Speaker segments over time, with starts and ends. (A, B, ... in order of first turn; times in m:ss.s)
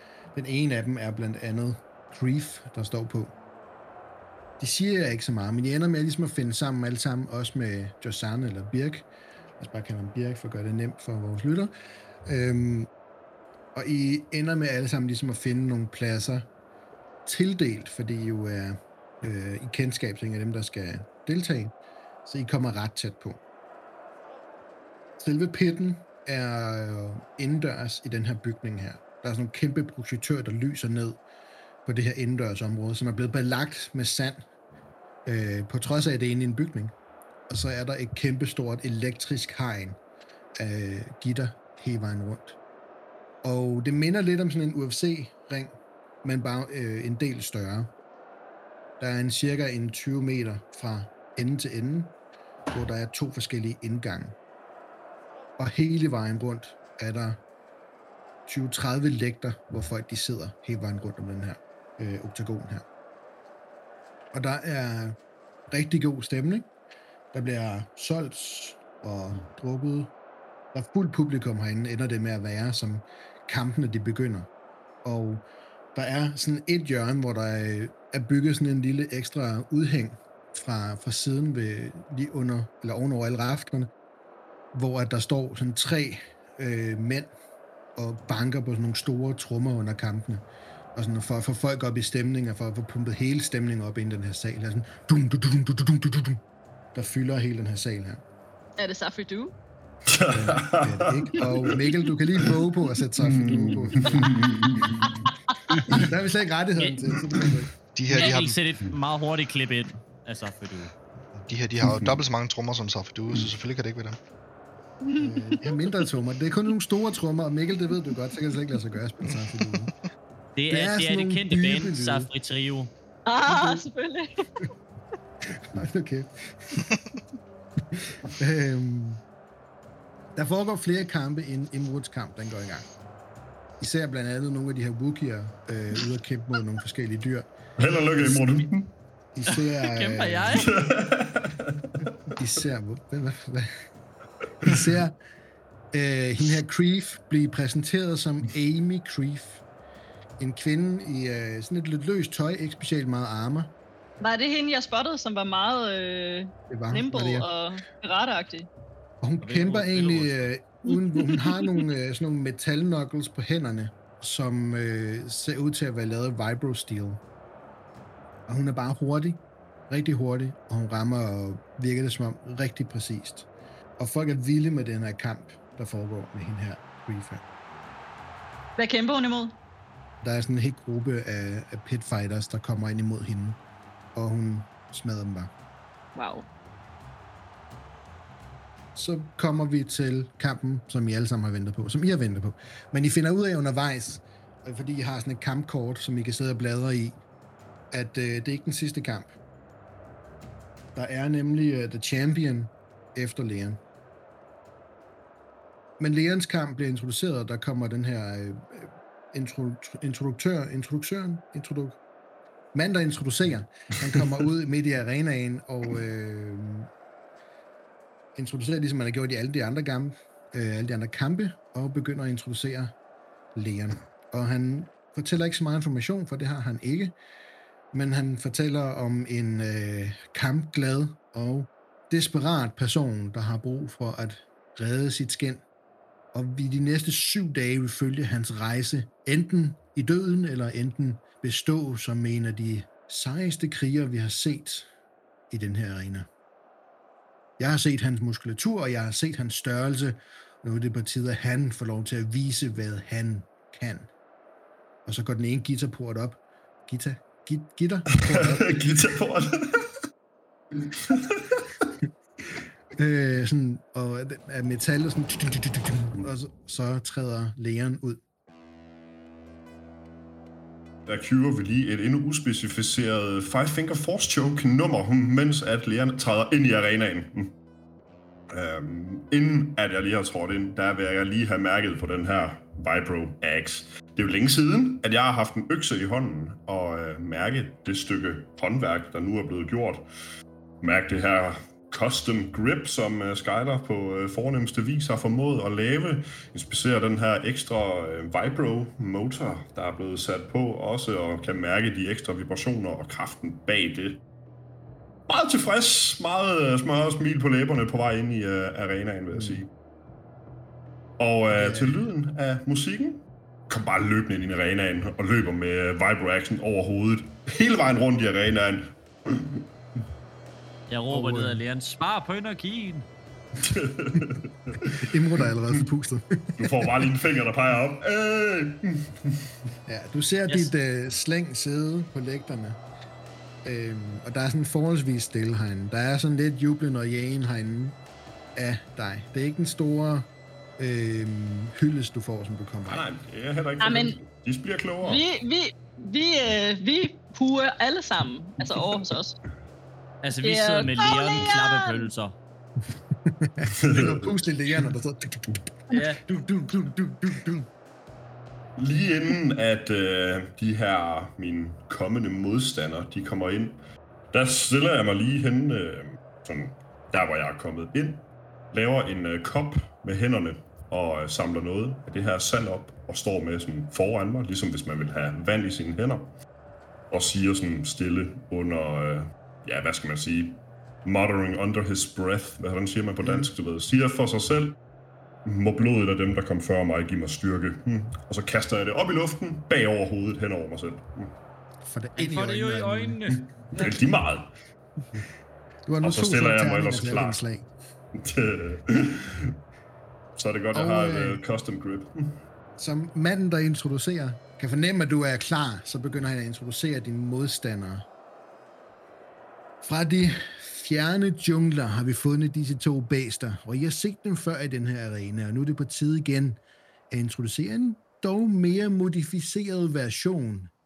0:00.3-0:03.3 A
0:04.6-0:09.1 A
0:09.6-0:11.7 A
0:12.2-0:12.9 A
0:13.7-0:16.5 A
0:17.2-0:21.7 A
0:22.2-0:23.4 A
0:25.2-0:31.2 A
0:31.8-0:34.4 A
0:35.2-0:36.9 A
0:37.5-0:40.0 A
0:40.6-0:42.6 A
0:43.4-0:47.9 A
0:49.0-0:52.1 A
0:52.7-0:54.4 A
0:55.6-0:57.4 A
0:58.5-1:02.8 A
1:04.3-1:05.2 A
1:05.7-1:06.7 A
1:07.3-1:10.1 A
1:10.7-1:14.5 A
1:15.0-1:15.4 A
1:15.9-1:23.9 A
1:24.7-1:27.3 A
1:28.0-1:30.4 A
1:30.9-1:36.4 A
1:36.9-1:38.2 A
1:38.8-1:39.5 B
1:40.1-1:41.8 C
1:40.3-1:45.0 A
1:43.2-1:46.1 C
1:45.8-1:47.7 A
1:47.9-1:48.6 D
1:48.1-1:50.9 E
1:51.5-1:54.2 D
1:51.8-1:52.2 C
1:55.0-1:55.7 B
1:55.2-1:59.9 A
2:00.5-2:02.9 E
2:00.7-2:02.3 A
2:03.2-2:04.4 B
2:05.4-2:06.9 A
2:07.9-2:09.2 A
2:10.3-2:12.9 A
2:13.8-2:17.5 A
2:17.8-2:18.9 C
2:19.3-2:20.7 A
2:19.8-2:20.8 E
2:20.6-2:22.4 C
2:22.3-2:23.8 A
2:24.6-2:25.1 A
2:24.6-2:24.9 C
2:25.9-2:29.6 A
2:30.4-2:33.7 A
2:34.2-2:38.7 B
2:36.7-2:37.5 A
2:39.2-2:47.2 A
2:39.4-2:40.6 E
2:48.5-2:53.5 A
2:54.0-2:57.4 A
2:58.8-2:59.5 B
3:00.2-3:03.6 A
3:04.1-3:05.5 A
3:06.2-3:06.5 B
3:08.9-3:17.2 A
3:17.9-3:19.3 A
3:20.9-3:23.8 A
3:26.0-3:32.0 A
3:32.7-3:36.9 A
3:38.4-3:42.9 A
3:43.5-3:47.1 A
3:47.9-3:55.6 A
3:56.3-4:04.9 A
4:05.5-4:06.3 A
4:07.6-4:14.1 A
4:15.0-4:19.1 A
4:18.1-4:19.9 C
4:20.8-4:21.9 C
4:23.0-4:28.2 A
4:31.0-4:37.5 C
4:38.5-4:50.0 C
4:50.8-5:04.2 C
5:05.3-5:09.7 C
5:09.3-5:09.6 A
5:11.2-5:19.6 C
5:11.5-5:12.1 A
5:20.9-5:23.1 E
5:21.1-5:21.6 A
5:23.6-5:25.1 C
5:24.9-5:27.1 A
5:26.6-5:29.5 C
5:29.8-5:32.8 A
5:30.5-5:30.7 E
5:33.6-5:38.0 A
5:38.6-5:43.0 A
5:42.9-5:45.2 C
5:43.8-5:44.2 B
5:45.0-5:49.4 B
5:50.2-5:52.4 E
5:50.4-5:52.1 B
5:53.2-5:57.7 A
5:53.7-5:54.3 C
5:55.9-5:56.2 E
5:58.8-6:03.8 C
6:04.3-6:16.3 C
6:17.1-6:24.8 C
6:23.2-6:23.5 A
6:25.4-6:31.3 C
6:31.8-6:33.2 A
6:32.2-6:33.9 E
6:33.3-6:34.5 C
6:35.9-6:37.7 A
6:36.0-6:37.4 C
6:38.2-6:39.6 C
6:40.4-6:42.4 C
6:40.7-6:41.4 A
6:42.8-6:48.0 A
6:49.8-6:56.6 A
6:57.1-7:00.7 A